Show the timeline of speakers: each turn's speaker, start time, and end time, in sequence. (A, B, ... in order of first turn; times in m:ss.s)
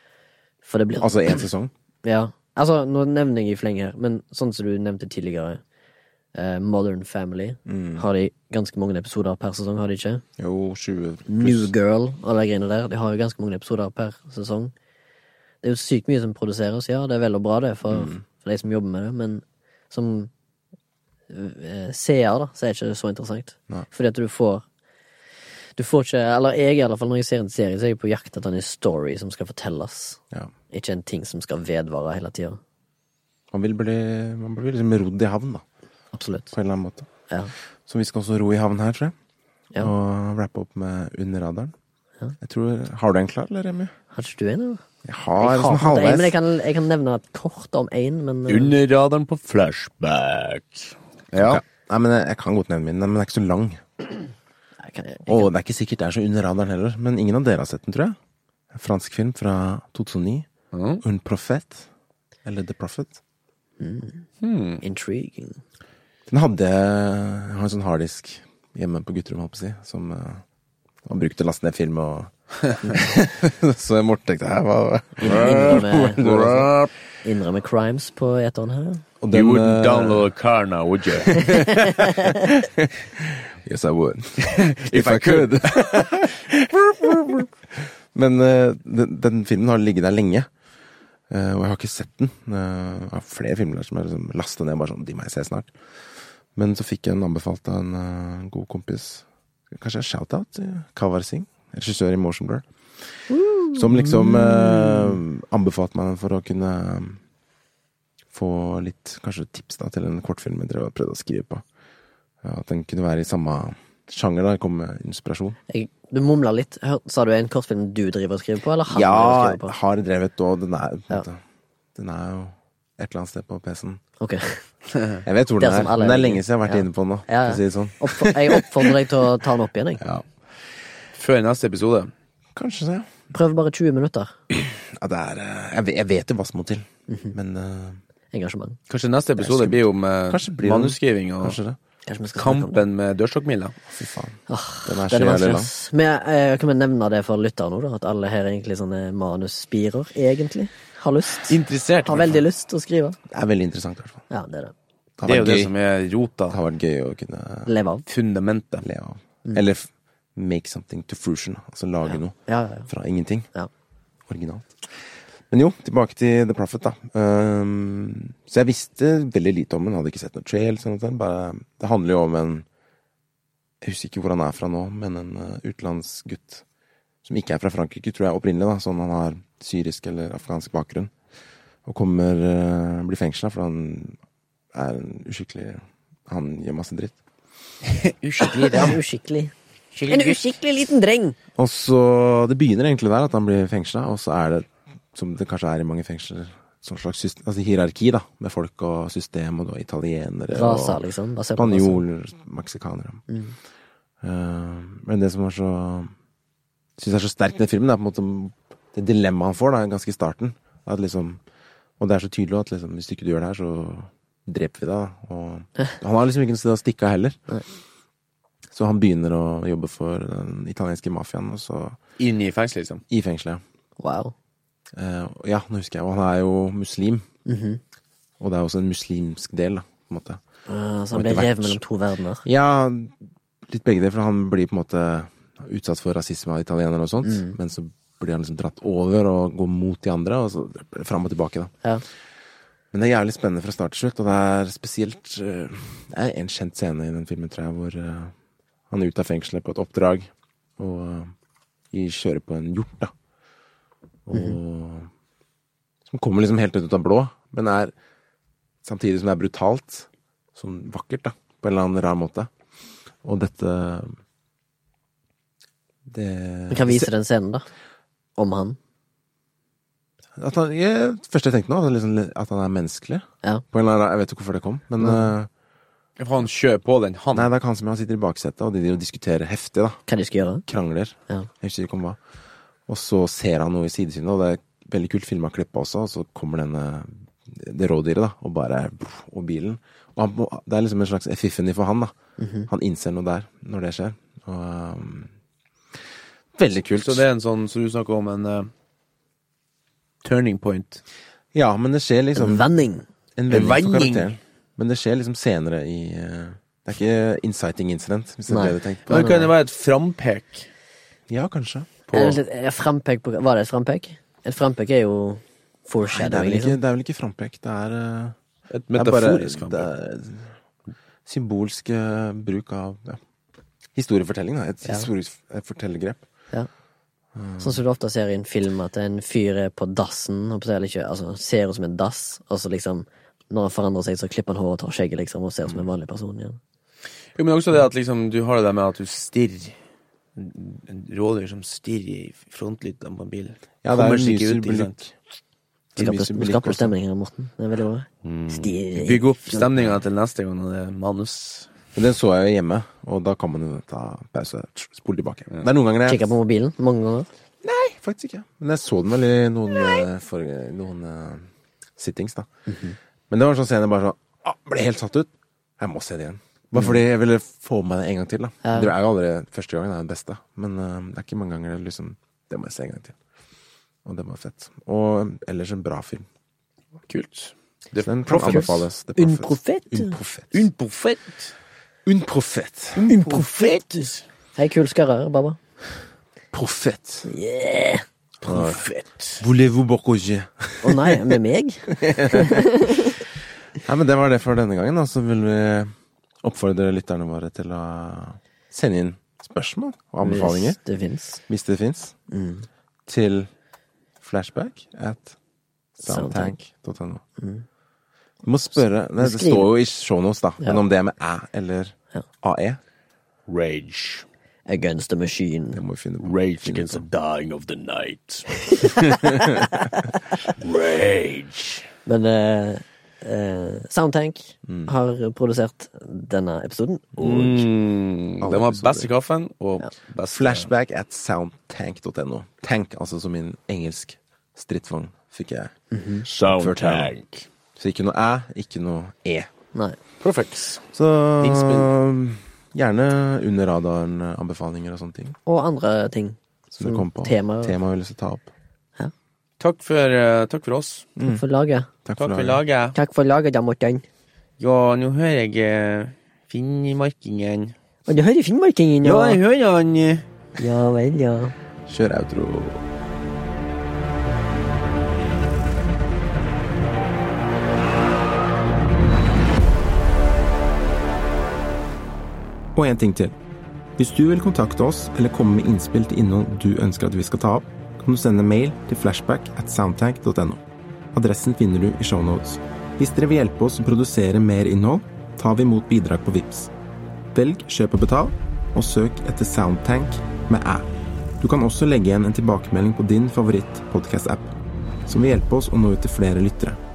0:00.6-0:01.4 A
0:01.0-0:01.7 B
0:02.0-0:05.6 A
0:06.4-0:10.2 A
0:07.7-0:08.0 B
0:10.4-0:11.7 B
0:11.3-0:14.7 A
0:15.6-0:20.3 A
0:17.9-0:18.2 B
0:21.3-0:24.6 A
0:25.8-0:32.6 A
0:33.5-0:35.6 B
0:36.1-0:36.5 A
0:36.5-0:37.1 B
0:37.9-0:39.2 B
0:39.8-0:41.7 B
0:42.4-0:43.9 B
0:44.1-0:44.8 A
0:45.0-0:46.4 B
0:45.4-0:48.8 A
0:48.5-0:51.6 C
0:51.4-0:54.0 B
0:54.8-0:55.5 A
0:55.3-0:58.2 B
0:58.7-1:00.5 B
1:00.7-1:01.0 C
1:01.0-1:01.9 B
1:02.4-1:03.2 B
1:03.8-1:04.2 A
1:04.4-1:04.8 C
1:04.8-1:05.6 A
1:06.3-1:10.4 B
1:11.0-1:16.8 B
1:15.2-1:16.4 A
1:15.2-1:16.9 C
1:17.2-1:19.0 A
1:19.2-1:20.3 B
1:19.3-1:21.9 C
1:21.3-1:30.5 B
1:21.5-1:22.5 A
1:24.4-1:26.3 C
1:31.3-1:35.7 B
1:36.6-1:42.6 B
1:43.3-1:45.1 A
1:43.7-1:47.2 B
1:48.3-1:51.6 B
1:52.4-1:55.6 B
1:55.7-1:59.8 A
1:58.9-2:01.4 B
2:02.0-2:04.0 B
2:04.2-2:04.6 A
2:05.2-2:09.0 B
2:05.6-2:10.0 A
2:10.0-2:10.3 B
2:11.1-2:12.1 C
2:12.6-2:13.1 B
2:13.3-2:14.3 A
2:14.5-2:18.0 B
2:17.1-2:17.4 A
2:18.3-2:18.8 A
2:18.9-2:21.6 C
2:19.4-2:21.8 B
2:22.1-2:22.8 A
2:22.4-2:23.8 C
2:23.9-2:25.7 B
2:24.5-2:33.2 A
2:31.5-2:32.4 C
2:33.3-2:34.2 B
2:34.3-2:34.7 A
2:35.2-2:35.7 B
2:35.3-2:36.6 C
2:36.5-2:37.7 B
2:37.7-2:38.0 A
2:38.1-2:38.8 C
2:38.8-2:42.4 B
2:42.5-2:42.9 A
2:42.9-2:43.5 B
2:44.3-2:52.6 B
2:53.8-2:56.6 B
2:57.2-3:01.1 B
3:01.8-3:04.2 B
3:04.7-3:07.2 B
3:07.9-3:09.0 C
3:08.4-3:09.5 A
3:10.0-3:10.6 C
3:10.1-3:11.4 A
3:11.6-3:21.0 B
3:20.5-3:22.0 A
3:21.6-3:23.2 B
3:23.3-3:23.6 A
3:24.2-3:26.1 B
3:27.0-3:31.4 B
3:32.0-3:37.4 B
3:38.7-3:42.0 B
3:42.2-3:43.0 C
3:43.1-3:43.6 B
3:44.0-3:44.3 A
3:44.9-3:47.3 B
3:47.5-3:47.8 A
3:48.4-3:50.4 B
3:50.7-3:52.4 A
3:51.1-3:51.8 B
3:52.4-3:53.1 B
3:53.7-4:01.7 B
3:57.2-3:57.5 A
4:02.9-4:08.3 B
4:08.9-4:11.3 B
4:11.9-4:13.1 B
4:14.3-4:15.1 B
4:16.1-4:17.9 B
4:18.8-4:22.5 B
4:23.2-4:24.2 B
4:26.1-4:27.1 B
4:26.7-4:27.7 A
4:28.4-4:28.8 A
4:30.4-4:35.5 B
4:36.2-4:37.5 C
4:37.3-4:40.0 B
4:40.1-4:40.6 A
4:40.7-4:42.2 B
4:42.9-4:52.2 B
4:52.4-4:52.7 A
4:52.7-4:55.3 B
4:56.6-4:57.2 B
4:57.0-4:58.7 C
5:00.2-5:01.0 C
5:01.5-5:02.7 B
5:02.4-5:03.0 A
5:03.4-5:09.4 B
5:03.5-5:04.3 C
5:08.5-5:09.5 A
5:09.1-5:10.7 C
5:11.3-5:12.0 B
5:12.1-5:12.4 C
5:12.1-5:16.8 A
5:16.1-5:18.4 B
5:18.7-5:19.9 C
5:18.9-5:20.6 B
5:21.3-5:23.2 B
5:24.0-5:26.2 B
5:27.4-5:27.8 B
5:27.6-5:36.6 A
5:37.4-5:39.8 C
5:40.4-5:45.0 C
5:43.8-5:45.1 B
5:46.0-5:46.9 B
5:46.0-5:49.7 A
5:48.2-5:51.7 C
5:52.0-5:56.3 B
5:56.1-5:57.3 A
5:57.6-6:02.5 B
6:02.7-6:03.0 A
6:03.3-6:13.2 B
6:08.6-6:08.9 A
6:14.0-6:16.2 B
6:17.1-6:18.9 C
6:18.0-6:20.7 B
6:18.4-6:20.2 A
6:20.5-6:21.5 C
6:22.1-6:23.1 B
6:23.0-6:24.2 C
6:23.1-6:23.5 A
6:24.6-6:25.6 A
6:26.5-6:27.3 B
6:27.2-6:28.0 A
6:28.4-6:28.9 B
6:28.4-6:29.4 C
6:29.4-6:31.2 B
6:30.8-6:33.2 A
6:31.9-6:32.8 B
6:33.8-6:40.8 B
6:40.2-6:41.4 A
6:41.5-6:42.2 B
6:42.3-6:42.7 A
6:43.1-6:43.5 B
6:44.2-6:45.4 B
6:46.0-6:47.2 B
6:46.0-6:46.6 A
6:47.4-6:47.6 A
6:48.4-6:52.8 B
6:49.2-6:49.7 A
6:53.5-6:54.3 C
6:54.7-6:55.8 A
6:55.8-6:57.1 B
6:56.2-6:59.5 C
6:58.8-7:00.4 A
6:59.3-6:59.7 B
7:00.5-7:01.9 C
7:02.1-7:07.7 A
7:04.7-7:04.9 B
7:07.2-7:10.7 C
7:08.4-7:09.1 B
7:10.3-7:15.7 B
7:15.9-7:16.3 A
7:16.3-7:17.5 C
7:16.4-7:17.1 B
7:17.8-7:19.5 B
7:20.2-7:20.8 C
7:20.9-7:25.4 B
7:21.4-7:21.9 C
7:25.5-7:27.8 A
7:26.7-7:28.5 B
7:29.6-7:31.1 C
7:31.2-7:31.4 B
7:31.2-7:31.9 A
7:32.0-7:32.6 B
7:32.2-7:33.0 C
7:33.0-7:34.0 A
7:34.6-7:37.8 C
7:38.1-7:39.4 A
7:39.0-7:40.3 C
7:40.6-7:41.5 A
7:41.9-7:42.8 B
7:52.8-7:53.4 B
7:54.0-8:06.7 B
8:07.3-8:10.9 B
8:11.4-8:14.5 B
8:15.1-8:16.8 B